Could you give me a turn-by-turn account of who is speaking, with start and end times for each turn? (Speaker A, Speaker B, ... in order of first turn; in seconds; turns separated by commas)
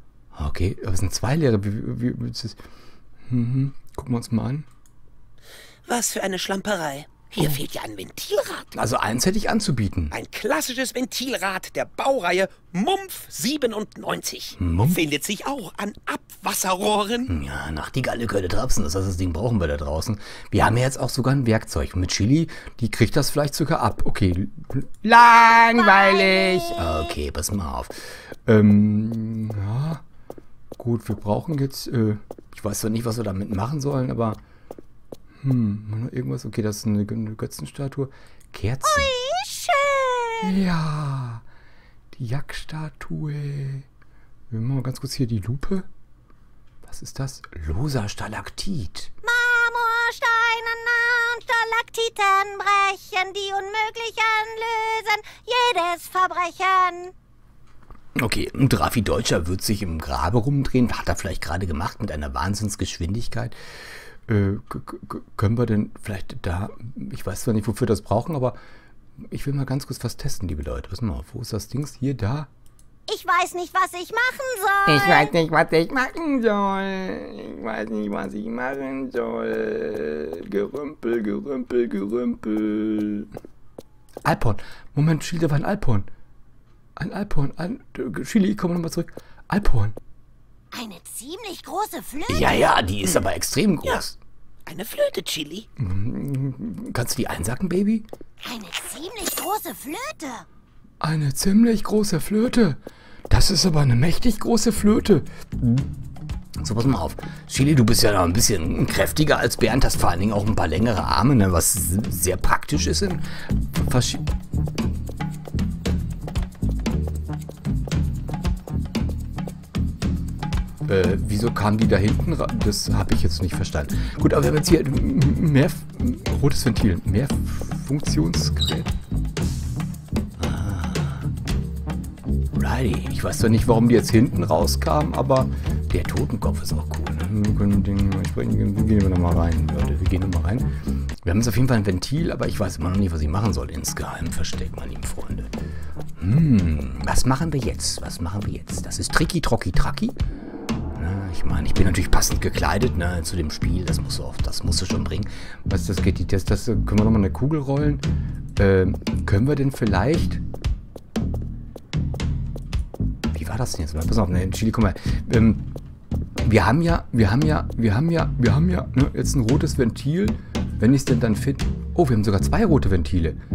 Speaker A: 0.3-2.6, Speaker A: 3.3-4.7, Speaker B: 5.8-8.7, Speaker A: 8.7-10.1, Speaker B: 10.1-17.3, Speaker A: 14.6-15.0, Speaker A: 17.3-30.0, Speaker C: 25.2-27.1, Speaker A: 30.8-34.4, Speaker A: 35.4-39.1, Speaker C: 38.8-40.6, Speaker A: 40.4-41.4, Speaker A: 42.1-43.9, Speaker A: 44.5-45.9, Speaker A: 46.9-49.1, Speaker C: 49.2-57.1, Speaker A: 58.1-63.5, Speaker A: 64.3-68.6, Speaker A: 69.2-72.5, Speaker C: 73.1-75.3, Speaker A: 74.9-83.3, Speaker A: 84.2-86.1, Speaker A: 87.0-90.0, Speaker C: 90.7-92.8, Speaker A: 92.3-94.2, Speaker B: 94.7-95.7, Speaker A: 95.8-98.1, Speaker C: 98.4-100.5, Speaker A: 101.0-105.9, Speaker A: 106.6-114.3, Speaker A: 120.8-128.9, Speaker A: 130.4-131.2, Speaker A: 132.5-145.5, Speaker A: 146.2-150.2, Speaker A: 150.9-158.0, Speaker A: 158.6-160.4, Speaker A: 163.3-165.6, Speaker A: 166.4-173.4